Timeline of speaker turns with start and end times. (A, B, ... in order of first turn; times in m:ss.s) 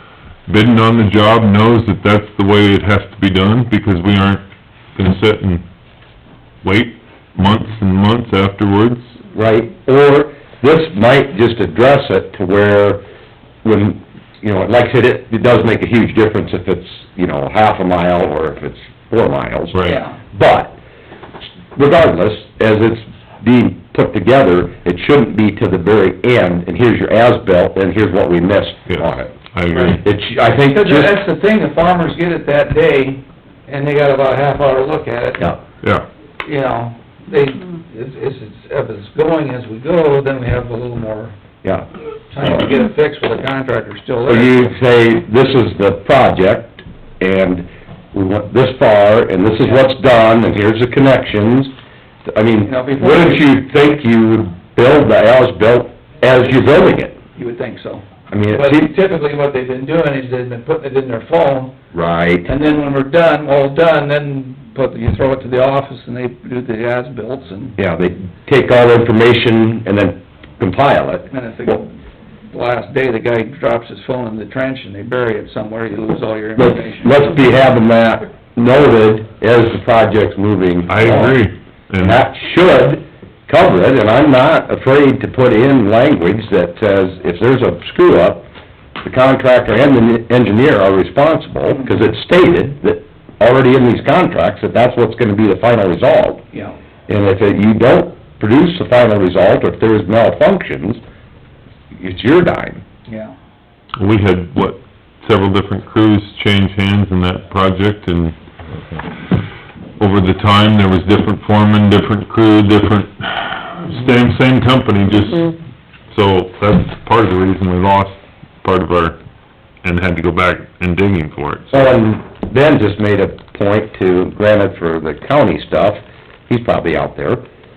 0:00.5-0:04.4 A
0:05.0-0:05.6 A
0:06.6-0:09.2 A
0:09.3-0:13.0 B
0:13.6-0:20.8 B
0:19.7-0:20.0 A
0:19.8-0:20.2 C
0:21.8-0:31.1 B
0:28.9-0:30.0 A
0:30.7-0:35.6 C
0:36.4-0:41.3 C
0:42.3-0:44.7 C
0:42.4-0:42.7 B
0:44.2-0:51.7 B
0:52.3-0:57.2 B
0:52.6-0:53.5 C
0:57.2-1:01.7 C
0:58.3-0:58.9 B
1:01.9-1:02.5 B
1:02.4-1:07.8 C
1:07.8-1:11.8 B
1:11.3-1:12.0 C
1:12.5-1:17.2 C
1:16.6-1:21.4 B
1:20.9-1:22.2 A
1:22.0-1:28.5 B
1:29.0-1:36.4 B
1:31.7-1:32.0 C
1:37.1-1:41.0 B
1:42.0-1:42.8 B
1:43.1-1:43.3 C
1:44.0-1:48.4 A
1:50.0-1:55.6 A
1:56.1-1:59.2 A
1:59.8-2:01.9 A
2:01.7-2:07.4 B